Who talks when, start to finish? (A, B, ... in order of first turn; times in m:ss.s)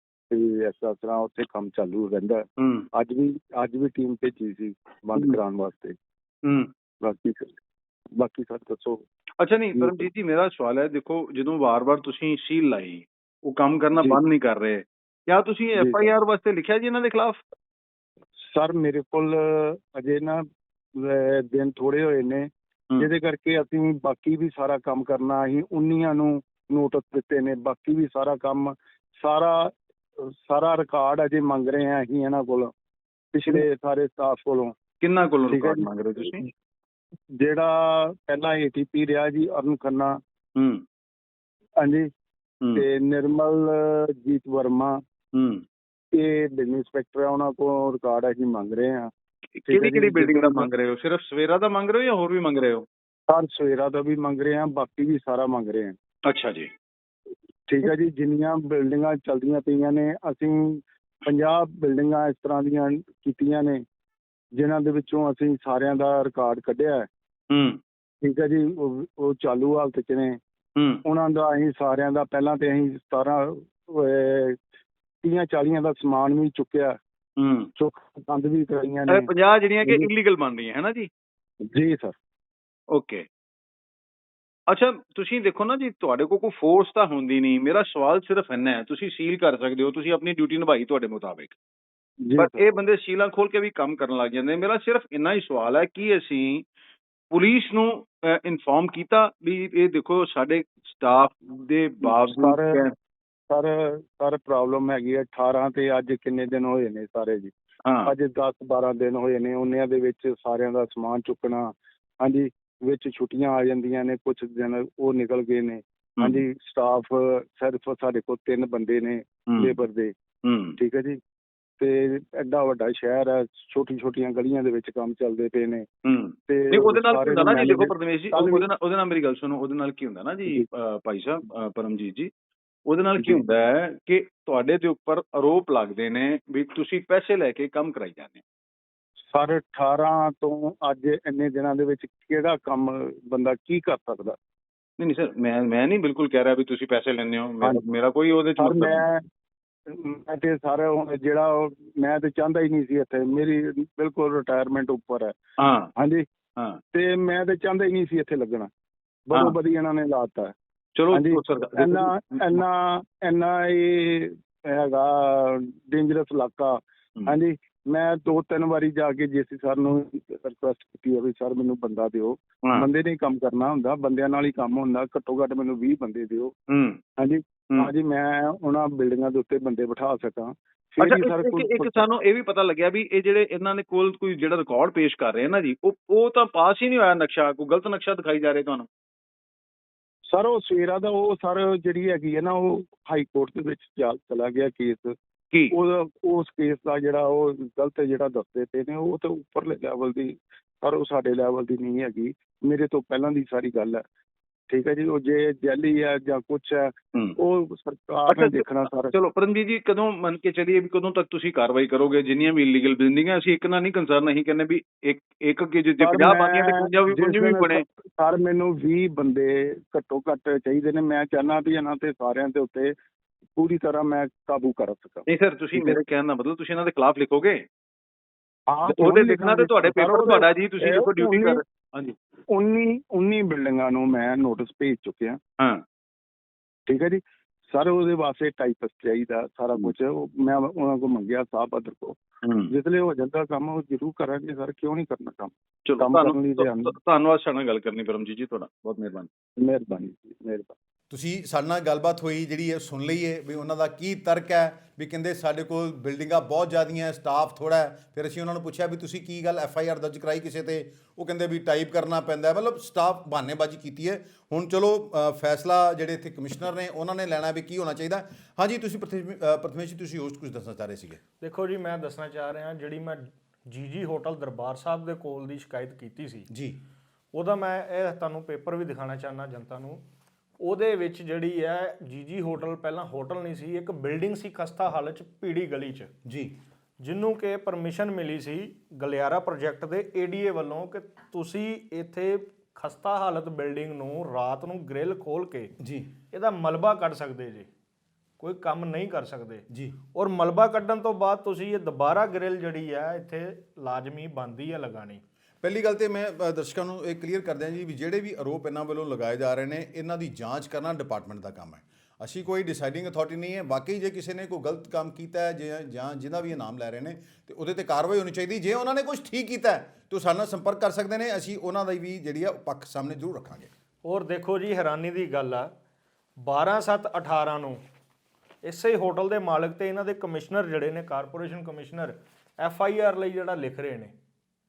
0:00.3-0:06.0 A
0:02.6-0:02.9 B
0:06.4-0:06.7 B
0:07.0-0:07.6 A
0:08.1-0:09.0 A
0:09.4-0:17.4 B
0:09.8-0:10.1 A
0:15.8-0:16.1 A
0:18.4-0:32.7 A
0:33.3-0:34.7 A
0:35.0-0:36.4 B
0:35.5-0:36.5 A
0:37.4-0:40.2 A
0:40.6-0:40.8 B
0:41.8-0:42.1 A
0:42.7-0:45.0 A
0:45.3-0:45.6 B
0:46.1-0:49.1 A
0:49.6-0:52.8 B
0:49.6-0:50.7 A
0:53.3-0:56.0 A
0:56.2-0:56.7 B
0:57.7-1:03.8 A
1:04.6-1:07.1 A
1:07.5-1:07.8 B
1:08.2-1:10.4 A
1:10.8-1:11.0 B
1:11.0-1:14.6 A
1:15.2-1:17.0 A
1:17.4-1:17.7 B
1:17.8-1:19.3 A
1:19.1-1:21.1 B
1:21.6-1:22.2 A
1:22.9-1:23.2 B
1:24.7-1:31.6 B
1:32.2-1:32.6 A
1:32.4-1:36.6 B
1:37.3-1:42.9 B
1:42.0-1:42.8 A
1:43.5-1:47.5 A
1:47.8-1:48.1 B
1:48.0-2:00.1 A
1:59.5-1:59.8 B
2:00.4-2:00.8 B
2:00.8-2:01.2 A
2:01.8-2:05.9 A
2:06.0-2:12.3 B
2:06.5-2:08.6 A
2:12.9-2:18.4 B
2:19.3-2:24.4 A
2:25.0-2:29.0 B
2:28.6-2:29.2 A
2:29.9-2:35.4 A
2:35.6-2:35.9 B
2:36.0-2:36.2 A
2:36.9-2:38.7 A
2:39.3-2:40.5 A
2:41.0-2:42.6 B
2:41.1-2:56.5 A
2:56.7-2:57.0 B
2:57.2-3:02.0 A
3:01.0-3:08.9 B
3:10.3-3:15.1 A
3:15.7-3:24.0 A
3:24.7-3:29.2 A
3:28.3-3:37.8 B
3:36.0-3:42.9 A
3:43.6-3:46.0 A
3:45.3-3:47.6 B
3:48.7-3:51.6 A
3:48.9-3:52.1 B
3:52.5-3:55.4 A
3:56.9-4:06.9 A
4:02.4-4:02.7 B
4:05.8-4:09.3 B
4:09.6-4:10.7 A
4:11.1-4:31.2 C
4:31.4-4:36.5 D
4:36.5-4:36.8 C
4:37.3-4:40.0 D
4:40.6-4:46.1 D
4:46.2-4:46.5 C
4:47.0-4:55.7 D
4:55.8-4:56.1 C
4:56.3-4:57.7 D
4:58.4-5:05.2 D
4:59.7-5:00.0 C
5:05.6-5:23.7 C
5:24.0-5:25.7 D
5:26.4-5:27.8 D
5:28.6-5:34.1 D